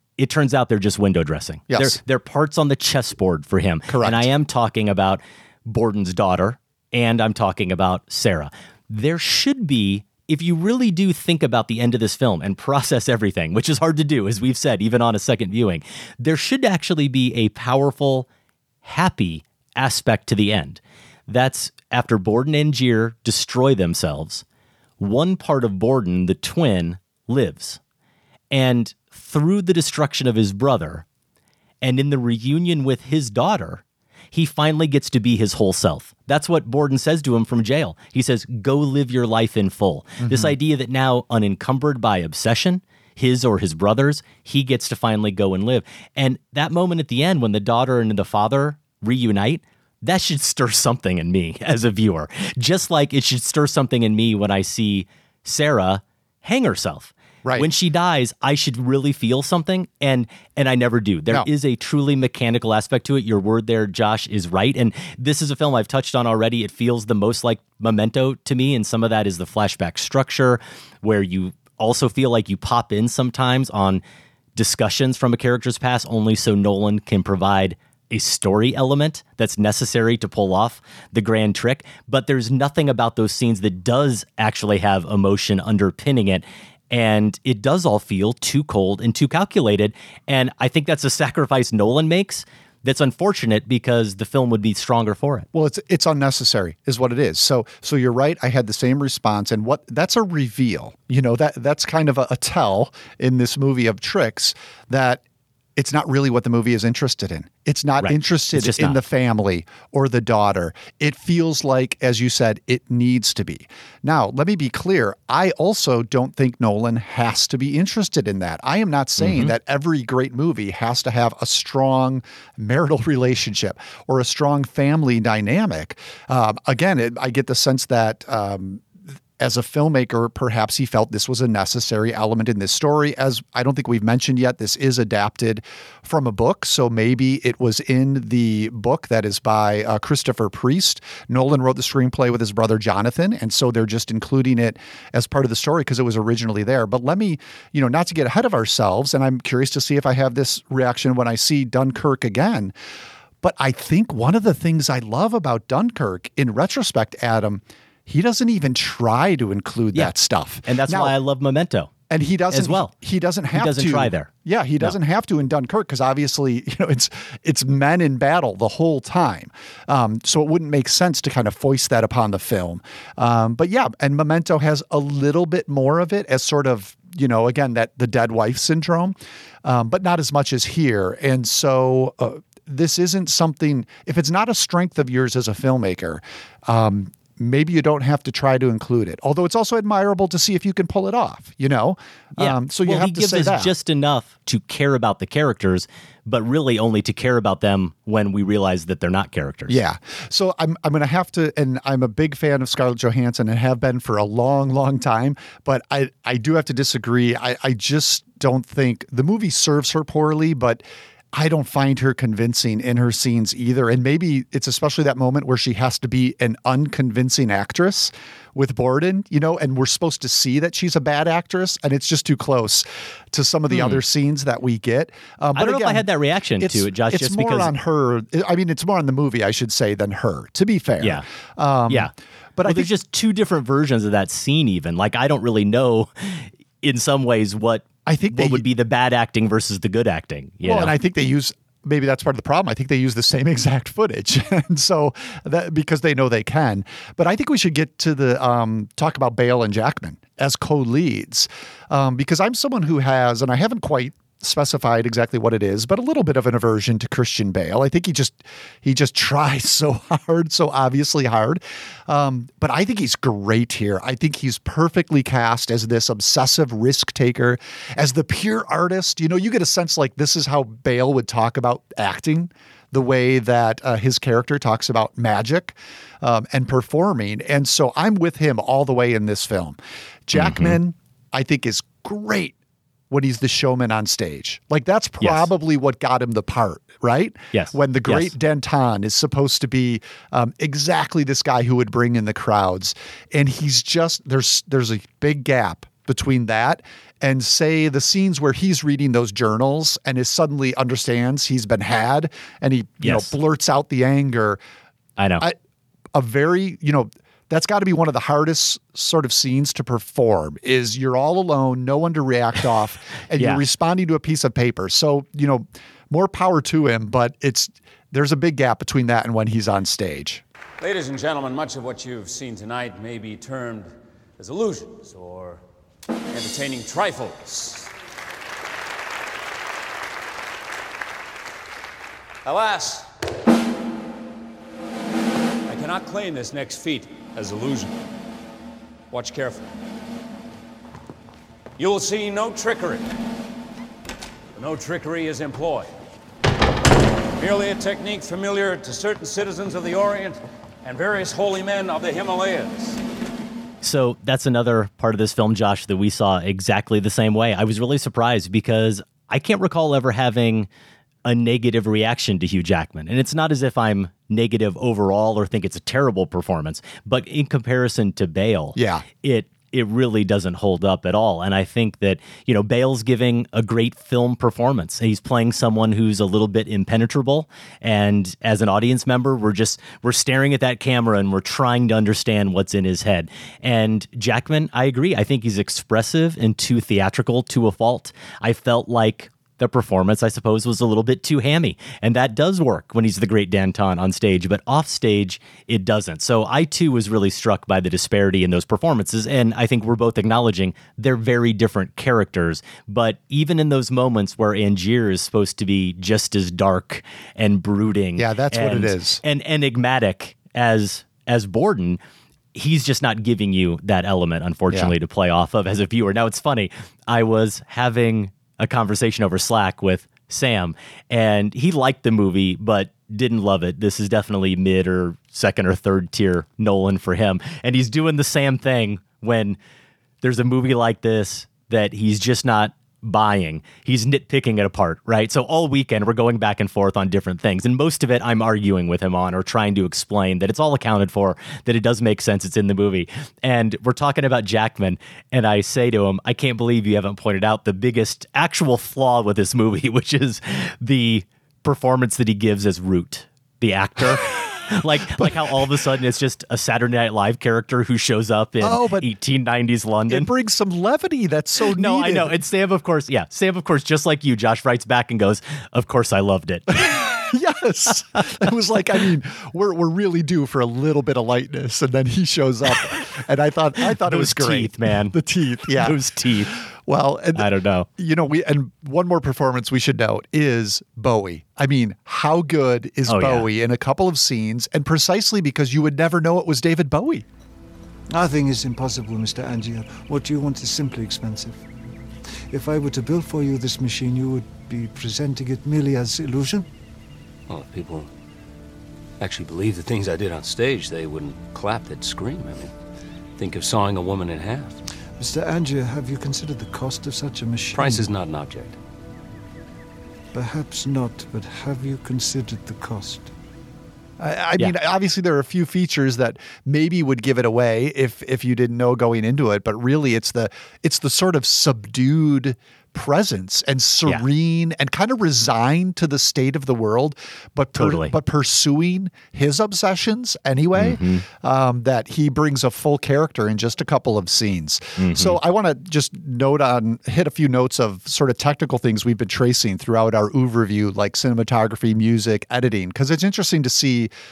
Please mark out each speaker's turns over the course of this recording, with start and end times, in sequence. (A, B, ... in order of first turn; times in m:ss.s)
0:00.2-0:18.3 A
0:01.7-0:02.0 B
0:03.9-0:04.3 B
0:18.8-0:24.4 A
0:25.0-0:27.8 A
0:28.5-0:31.0 A
0:31.8-1:14.0 A
0:40.2-0:40.5 B
0:57.4-0:57.7 B
1:14.6-1:35.5 A
1:35.5-1:45.2 B
1:45.8-2:32.7 B
1:48.0-1:49.0 A
1:59.2-1:59.5 A
2:33.4-2:41.1 B
2:40.6-2:41.9 A
2:42.1-3:13.7 B
2:42.5-2:42.9 A
2:43.5-2:45.0 A
3:12.4-3:19.8 A
3:19.7-3:46.0 B
3:43.7-3:44.0 A
3:45.6-3:47.8 A
3:46.6-3:52.9 B
3:52.6-4:00.9 A
3:58.1-3:58.6 B
4:00.6-4:42.6 B
4:40.3-4:40.8 A
4:43.1-5:04.6 B
4:45.2-4:45.5 A
4:47.5-4:48.3 A
5:03.0-5:03.3 A
5:05.2-5:05.5 A
5:06.1-5:20.4 B
5:13.4-5:13.6 A
5:20.8-5:25.6 C
5:26.3-5:27.9 C
5:32.4-5:33.1 C
5:35.7-5:38.0 C
5:39.1-5:39.7 C
5:41.8-5:43.1 C
5:44.6-5:45.9 C
5:47.4-5:53.0 C
5:53.8-6:00.7 A
6:01.2-6:52.0 A
6:08.8-6:09.0 B
6:48.2-6:49.2 B
6:52.5-7:09.6 A
7:10.2-7:40.3 A
7:34.1-7:35.8 B
7:38.6-7:39.1 B
7:40.1-7:42.4 B
7:41.8-7:46.8 A
7:46.8-7:56.0 B
7:53.8-7:55.2 A
7:55.7-7:56.6 A
7:56.6-8:07.2 B
7:57.4-7:57.9 A
8:03.1-8:03.5 A
8:08.1-8:11.6 D
8:12.5-8:16.7 D
8:17.5-8:18.1 E
8:19.2-8:22.7 E
8:23.4-8:24.8 E
8:25.2-8:28.1 D
8:27.7-8:28.8 E
8:30.3-8:33.3 D
8:34.2-9:04.1 B
8:47.8-8:48.2 A
8:50.8-8:51.2 A
8:55.0-8:55.4 A